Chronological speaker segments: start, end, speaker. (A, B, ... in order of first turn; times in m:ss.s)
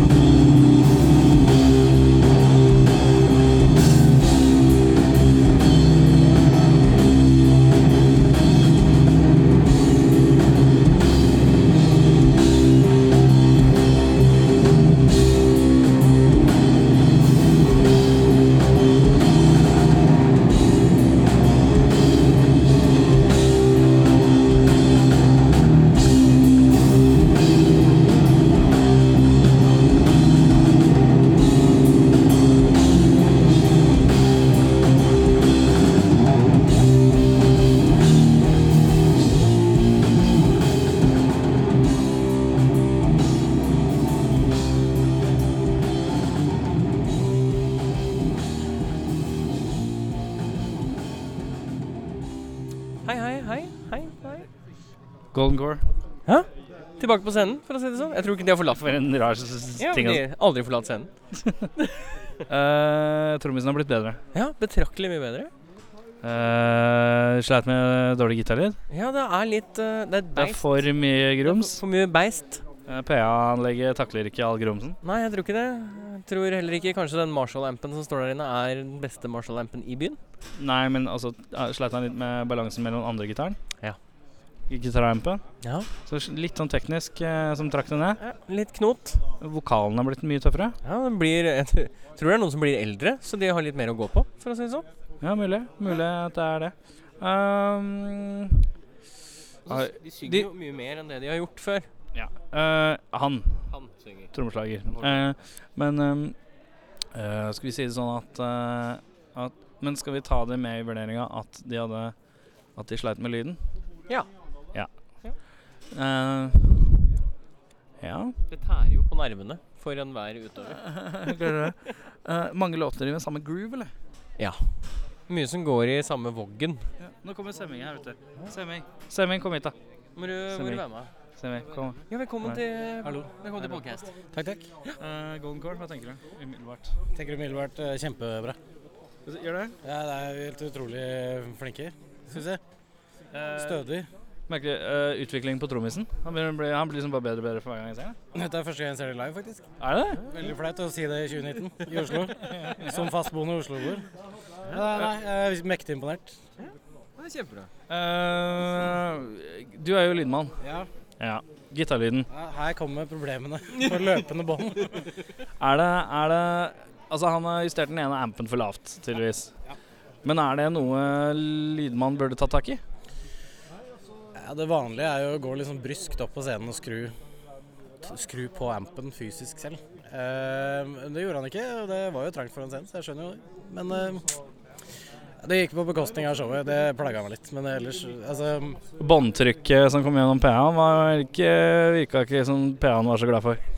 0:53.0-0:54.5 A
0:55.3-0:55.8 B
0:57.0-0:58.9 A
0:58.8-1:00.2 B
0:59.8-1:01.1 A
1:01.4-1:01.7 B
1:02.5-1:04.2 B
1:04.3-1:05.5 A
1:06.2-1:08.8 B
1:08.9-1:10.9 A
1:10.4-1:11.8 B
1:11.4-1:12.6 A
1:12.9-1:15.0 B
1:15.0-1:20.2 A
1:20.6-1:23.6 B
1:24.7-1:25.4 B
1:25.6-1:25.9 A
1:26.0-1:28.2 B
1:28.2-1:29.2 A
1:29.4-1:30.8 B
1:30.8-1:34.9 A
1:35.2-1:38.7 B
1:39.7-1:41.9 A
1:39.7-1:40.5 B
1:42.2-1:43.7 B
1:43.7-1:44.3 A
1:44.3-1:46.4 B
1:44.9-1:45.4 A
1:47.1-1:52.2 B
1:52.8-1:53.6 B
1:55.9-1:57.1 B
1:58.0-1:58.4 B
1:58.5-2:00.8 A
2:00.8-2:03.9 B
2:04.4-2:04.7 A
2:05.3-2:06.9 A
2:07.0-2:09.8 B
2:10.2-2:11.1 A
2:10.5-2:10.8 B
2:11.4-2:12.6 B
2:12.1-2:14.1 A
2:14.3-2:14.6 C
2:15.0-2:16.9 B
2:17.2-2:18.6 C
2:19.3-2:19.8 B
2:19.8-2:22.6 C
2:23.3-2:23.8 B
2:23.5-2:24.1 C
2:24.5-2:28.2 B
2:28.3-2:29.7 C
2:29.8-2:30.2 B
2:30.3-2:34.1 C
2:32.6-2:32.9 B
2:34.7-2:36.4 C
2:36.6-2:37.7 A
2:37.9-2:40.6 B
2:40.6-2:40.9 C
2:41.2-2:42.3 B
2:42.3-2:45.0 C
2:45.6-2:49.5 B
2:50.2-2:52.8 B
2:54.4-2:57.1 C
2:58.0-3:04.3 C
3:05.4-3:08.8 C
3:09.0-3:13.6 B